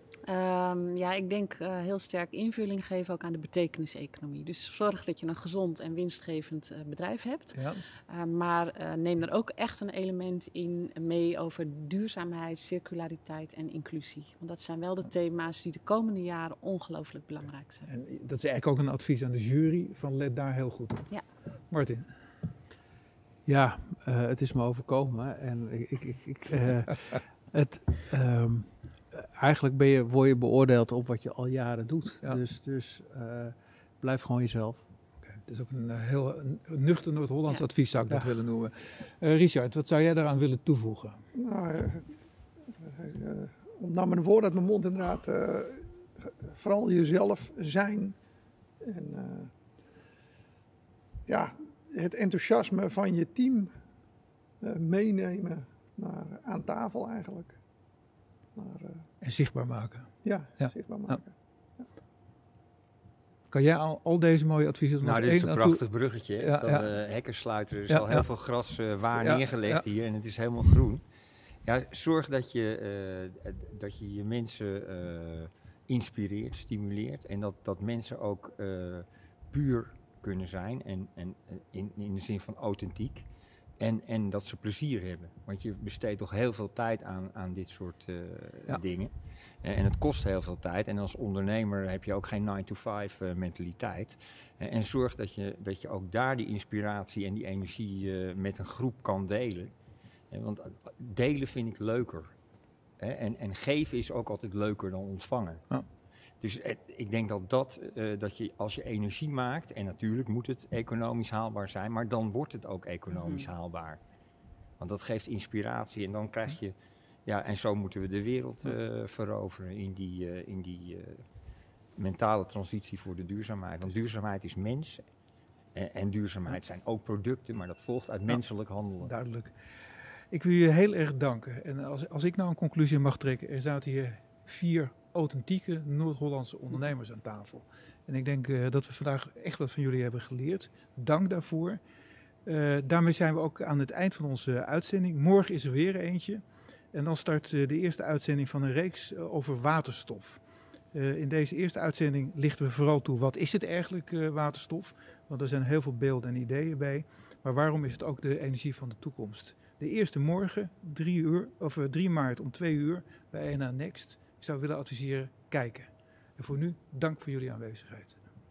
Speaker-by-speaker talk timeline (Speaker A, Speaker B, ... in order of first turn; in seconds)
Speaker A: 0.3-17.9
Speaker B: 7.5-7.8, 17.9-21.1, 21.7-22.1, 35.2-41.2, 59.2-61.2, 63.5-65.8, 66.4-66.9, 67.9-68.2, 69.1-69.8, 129.0-129.5, 130.3-141.8, 142.4-150.4, 150.9-168.2
Speaker C: 23.4-34.8, 38.1-38.4
Speaker D: 41.3-42.1, 42.8-48.1, 48.8-49.5, 51.3-53.7, 54.6-57.6, 58.5-59.0, 60.2-61.9
Speaker E: 65.0-71.0, 71.6-83.2, 83.8-89.1, 89.6-99.7, 100.3-102.3, 103.0-105.6, 106.4-114.0, 114.8-116.7, 117.2-121.2, 122.0-125.0, 125.7-129.1